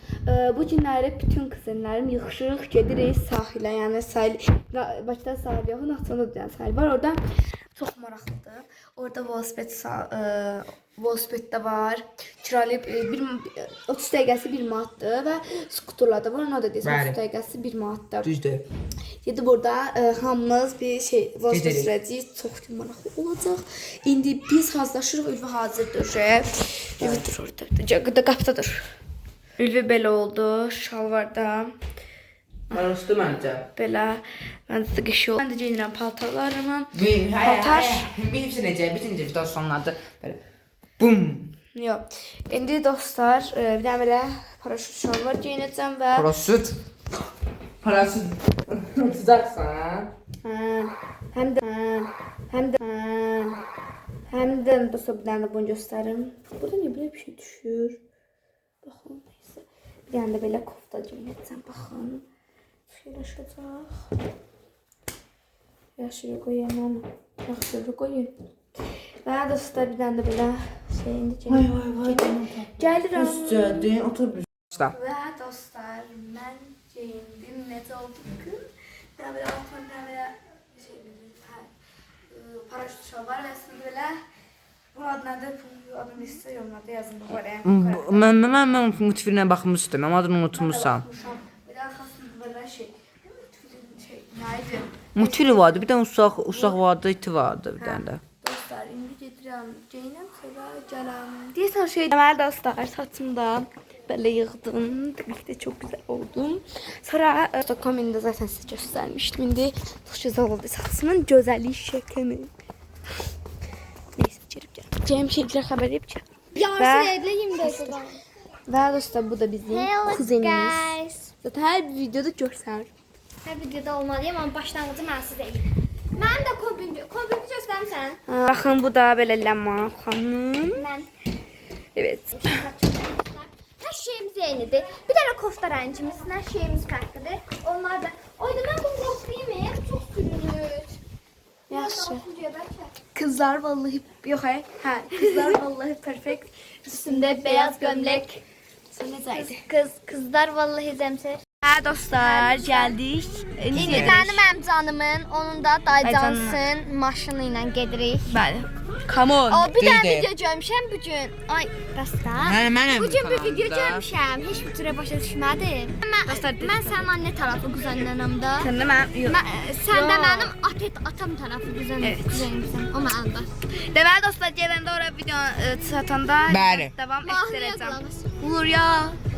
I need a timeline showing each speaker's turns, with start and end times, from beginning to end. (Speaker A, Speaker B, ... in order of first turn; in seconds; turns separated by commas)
Speaker A: 0.2-7.2, Speaker A: 7.7-18.3, Speaker B: 16.8-17.2, Speaker B: 18.2-18.6, Speaker A: 19.2-28.9, Speaker B: 21.5-21.9, Speaker A: 29.6-31.7, Speaker B: 32.7-33.6, Speaker A: 33.7-38.1, Speaker B: 36.9-40.4, Speaker B: 41.0-41.5, Speaker A: 41.7-46.3, Speaker B: 46.1-46.8, Speaker B: 47.8-50.1, Speaker A: 50.4-53.6, Speaker A: 54.3-58.0, Speaker A: 58.8-62.2, Speaker A: 62.9-64.1, Speaker A: 66.0-68.3, Speaker A: 69.2-73.8, Speaker B: 71.5-74.9, Speaker A: 74.8-81.7, Speaker A: 82.3-84.2, Speaker A: 84.9-88.3, Speaker B: 87.6-91.0, Speaker A: 90.5-95.8, Speaker B: 95.1-98.2, Speaker A: 96.4-96.8, Speaker A: 97.8-112.5, Speaker A: 114.2-118.0, Speaker C: 116.5-118.2, Speaker A: 118.7-122.9, Speaker C: 119.7-121.3, Speaker C: 123.4-128.2, Speaker A: 128.3-130.8, Speaker C: 130.7-131.1, Speaker A: 131.9-132.3, Speaker C: 132.3-141.0, Speaker A: 141.7-142.2, Speaker C: 141.7-142.9, Speaker A: 143.1-148.3, Speaker C: 145.2-145.6, Speaker C: 146.9-148.4, Speaker A: 148.9-149.6, Speaker C: 149.3-151.4, Speaker A: 151.6-154.4, Speaker C: 152.2-152.9, Speaker B: 153.7-154.1, Speaker C: 153.7-158.3, Speaker A: 156.0-156.6, Speaker A: 158.3-159.7, Speaker C: 159.5-168.7, Speaker B: 159.7-160.3, Speaker B: 162.4-164.1, Speaker A: 166.2-167.1, Speaker A: 168.6-170.5, Speaker C: 169.2-173.5, Speaker A: 172.0-172.5, Speaker A: 173.8-179.2, Speaker B: 176.5-176.9, Speaker C: 177.2-178.4